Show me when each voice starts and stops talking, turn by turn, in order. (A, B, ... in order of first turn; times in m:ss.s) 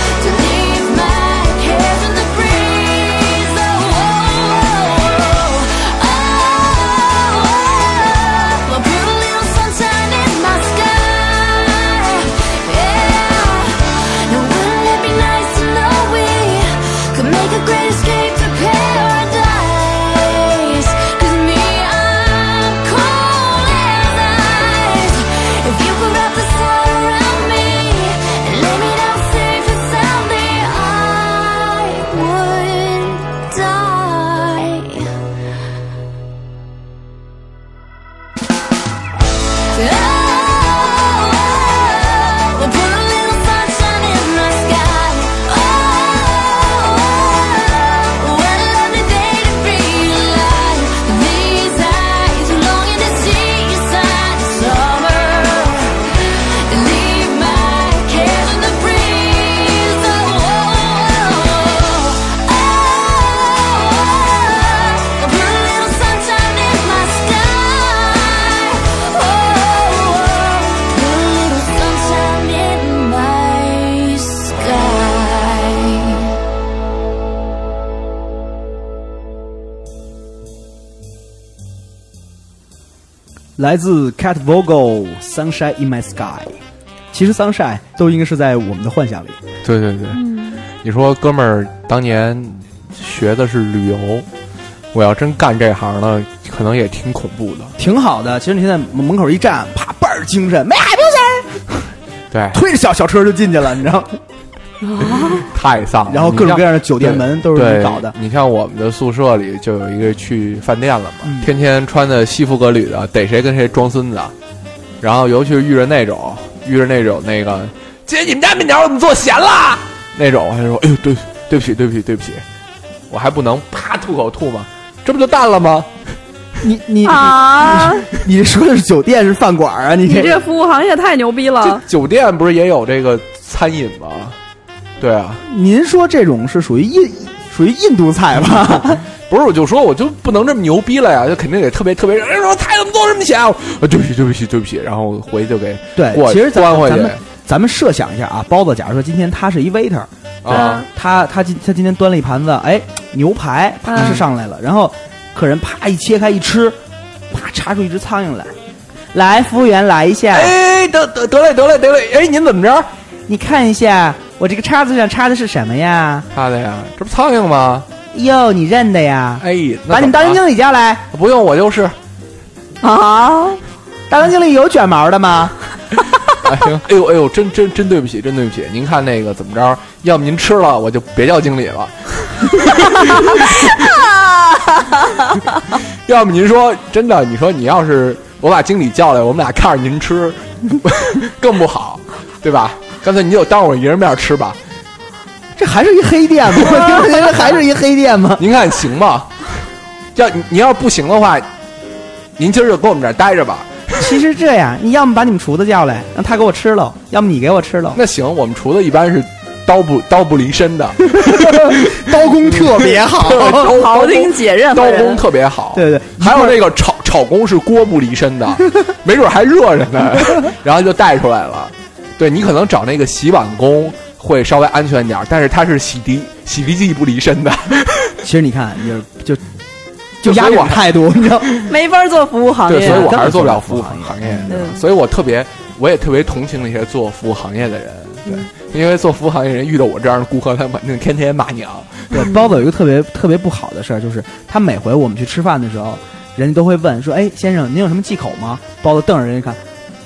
0:00.2-0:35.1 A
0:39.7-1:16.2 A
1:23.6-1:26.6 B
1:27.1-1:29.4 B
1:29.6-1:30.2 C
1:30.1-1:30.6 D
1:30.7-1:34.3 C
1:34.9-1:37.7 C
1:37.8-1:41.9 B
1:42.3-1:42.6 C
1:42.5-1:44.2 B
1:45.0-1:45.3 D
1:45.3-1:54.3 C
1:46.1-1:48.1 B
1:51.2-1:51.5 B
1:55.0-2:02.4 C
2:03.1-2:05.9 C
2:06.6-2:10.4 B
2:07.0-2:08.0 D
2:10.1-2:11.8 D
2:11.6-2:14.4 C
2:15.0-2:15.4 C
2:15.4-2:19.0 B
2:19.2-2:27.2 C
2:26.0-2:36.8 B
2:30.4-2:30.8 C
2:30.5-2:30.8 D
2:33.9-2:34.1 D
2:34.0-2:34.2 C
2:37.3-2:38.5 B
2:39.1-2:40.5 B
2:40.3-2:42.9 C
2:43.3-2:46.3 B
2:46.3-2:47.9 C
2:48.1-2:51.1 B
2:49.4-2:50.4 C
2:51.1-2:51.9 C
2:52.8-2:53.6 D
2:54.1-2:55.6 B
2:56.4-3:03.9 C
3:06.0-3:14.6 C
3:15.6-3:18.4 B
3:18.4-3:19.5 C
3:20.2-3:21.5 C
3:22.4-3:24.2 C
3:24.0-3:28.0 B
3:28.0-3:48.2 C
3:31.1-3:33.7 B
3:33.5-3:35.2 D
3:35.7-3:36.6 B
3:48.2-3:49.4 B
3:50.2-3:51.6 B
3:50.2-3:51.6 C
3:51.6-3:53.2 D
3:52.7-4:02.2 C
3:52.8-3:54.6 B
3:54.5-3:54.8 D
4:02.1-4:09.6 B